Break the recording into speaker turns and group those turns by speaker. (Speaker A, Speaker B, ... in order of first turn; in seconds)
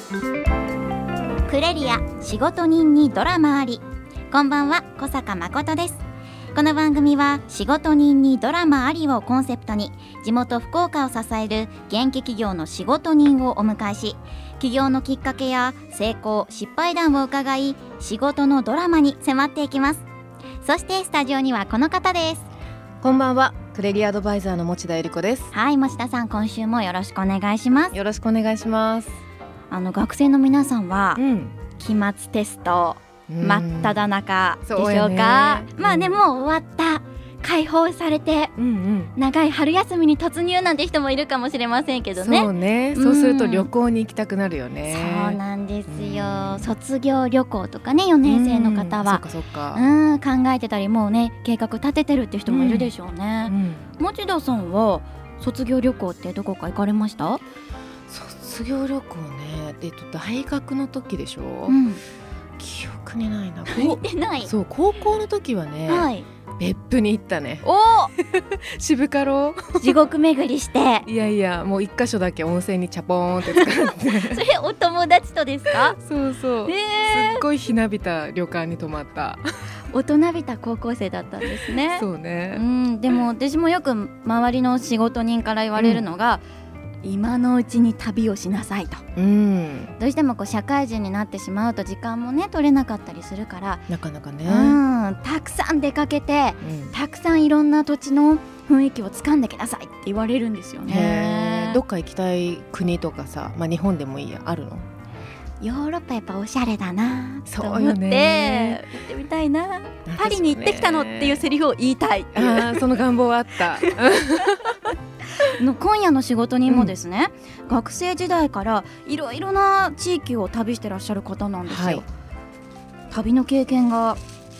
Speaker A: 1.4-6.0, 6.5-20.0, 20.6-22.4, 25.5-27.9, 29.7-31.2, 31.8-38.5, 39.1-43.7, 44.9-57.4, 61.7-62.0, 63.7-64.5, 65.9-66.2, 67.6-68.1, 69.8-71.1, 73.6-76.0, 76.7-77.4, 79.9-86.4, 87.0-89.0, 90.0-93.9, 94.5-101.8, 105.6-112.8, 115.5-122.1, 123.1-124.2
Speaker B: 23.0-25.5, 27.9-29.2, 31.1-31.6, 33.3-34.0, 34.6-36.2, 38.5-39.1, 42.2-46.7, 48.2-49.8, 52.5-52.9, 53.4-53.9, 58.1-61.8, 62.6-67.7, 68.2-69.9, 71.0-74.4, 75.9-79.4, 81.9-82.6, 85.8-86.0, 89.2-89.9, 93.9-94.8, 96.6-96.9, 100.8-104.9, 107.5-108.8, 110.0-111.4, 112.3-114.7, 116.7-116.9, 121.6-122.0